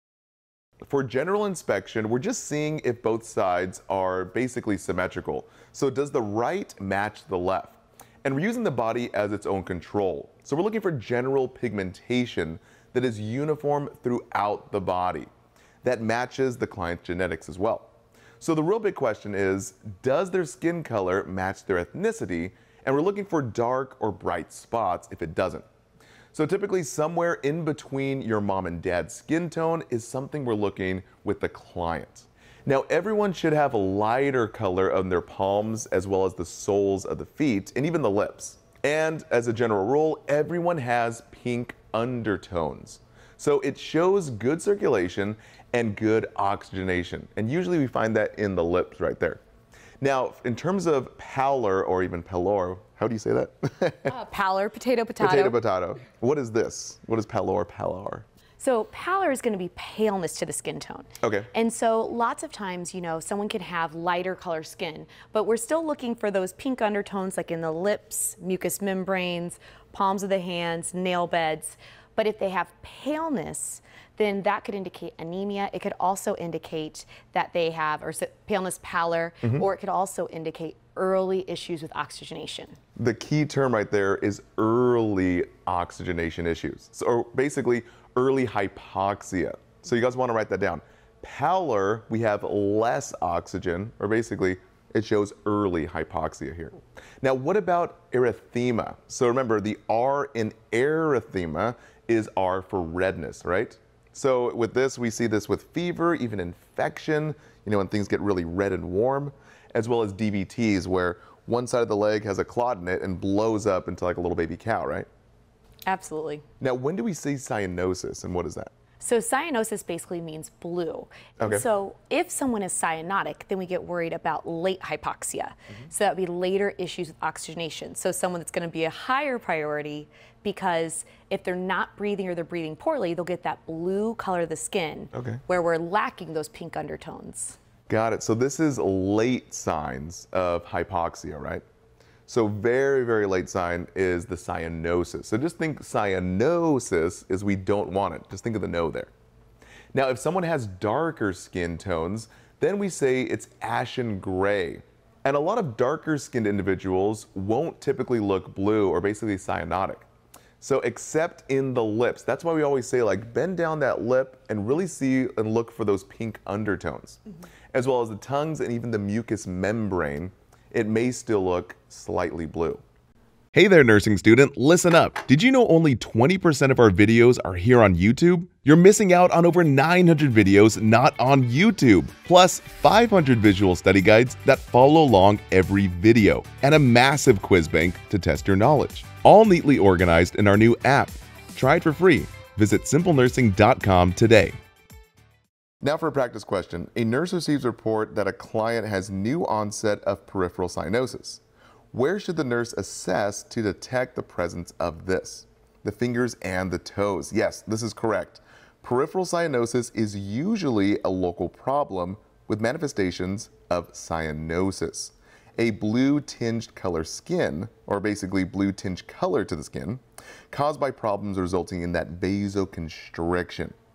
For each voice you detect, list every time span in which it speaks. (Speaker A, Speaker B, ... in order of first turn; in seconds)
Speaker A: 0.8-15.3, 15.8-25.6, 26.3-49.4, 50.0-54.1, 55.2-58.3, 61.2-61.5, 83.0-115.1, 116.6-118.7, 121.4-121.7, 135.1-135.4, 137.9-141.6, 142.3-149.1, 149.9-160.1, 160.6-167.2, 167.7-172.8, 173.5-194.6, 195.8-201.4, 201.9-223.8
Speaker B: 54.1-55.6, 58.6-82.8, 115.9-116.4, 119.0-137.6